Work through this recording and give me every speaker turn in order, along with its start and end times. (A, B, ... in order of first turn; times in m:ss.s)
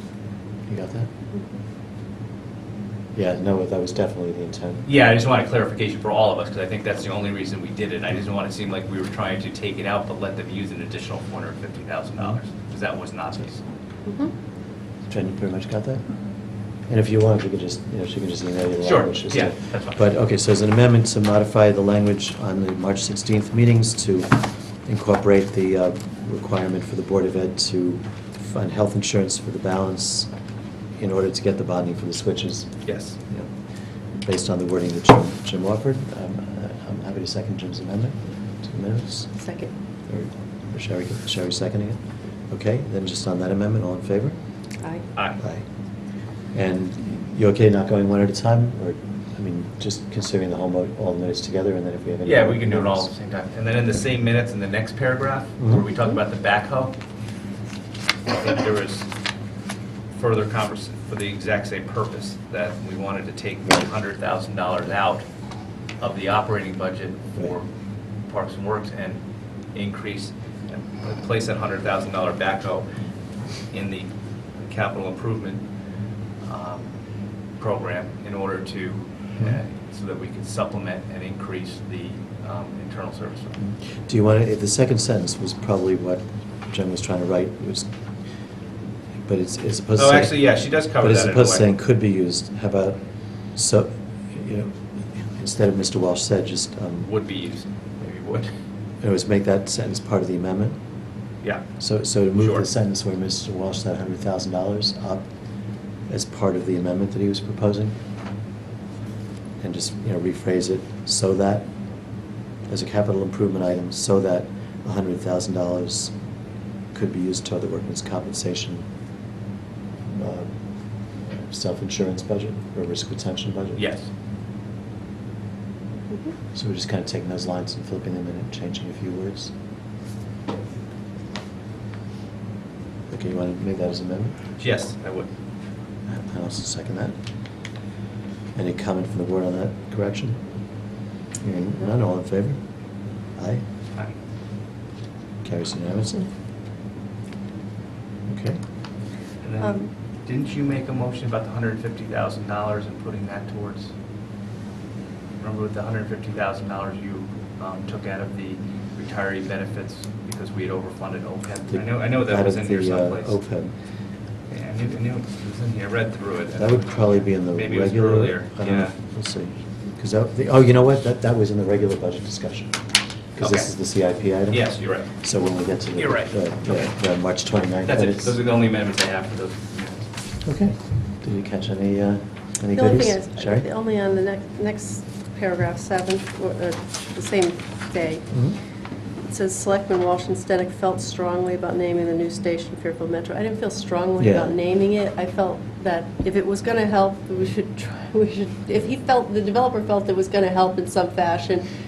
0:00.7-0:01.1 A
0:03.2-0:04.9 A
0:04.9-0:13.6 B
0:14.0-0:14.3 C
0:15.1-0:16.1 A
0:16.9-0:30.3 A
0:18.8-0:20.0 B
0:31.0-0:33.5 A
0:32.8-0:33.2 B
0:34.2-0:39.4 A
0:39.4-0:39.7 C
0:40.1-0:44.4 A
0:45.4-0:45.6 A
0:46.5-0:53.1 A
0:52.2-0:57.0 B
0:55.6-0:55.8 A
0:58.3-0:59.1 B
1:00.2-1:05.3 B
1:06.0-1:07.7 B
1:08.3-1:09.2 B
1:09.7-1:12.9 B
1:13.7-1:14.1 B
1:14.6-1:15.6 B
1:16.4-1:17.0 B
1:17.6-1:23.6 B
1:24.0-1:27.9 A
1:29.3-1:30.5 A
1:30.0-1:31.7 B
1:31.0-1:33.0 A
1:33.5-1:37.1 A
1:37.0-1:38.5 B
1:39.0-1:40.8 A
1:41.8-1:45.3 A
1:42.4-1:42.6 B
1:46.1-1:48.0 A
1:49.6-1:51.7 A
1:52.7-1:56.1 A
1:56.9-1:58.8 A
2:00.1-2:00.5 A
2:01.3-2:03.8 A
2:03.8-2:04.1 B
2:06.5-2:09.5 A
2:13.1-2:14.4 A
2:14.6-2:15.3 B
2:16.1-2:17.2 A
2:18.6-2:20.4 A
2:21.4-2:22.6 A
2:23.4-2:23.6 A
2:25.4-2:26.3 A
2:28.3-2:28.6 A
2:29.4-2:33.9 B
2:29.6-2:29.9 C
2:35.4-2:43.4 B
2:41.7-2:43.8 A
2:44.5-2:49.0 B
2:46.6-2:52.8 A
2:53.4-2:58.4 A
2:53.4-2:53.7 B
2:54.5-2:55.2 B
2:56.0-2:56.9 B
2:57.9-3:00.1 B
3:00.4-3:03.7 A
3:02.7-3:08.3 C
3:08.3-3:08.6 A
3:09.3-3:21.7 C
3:14.2-3:14.6 A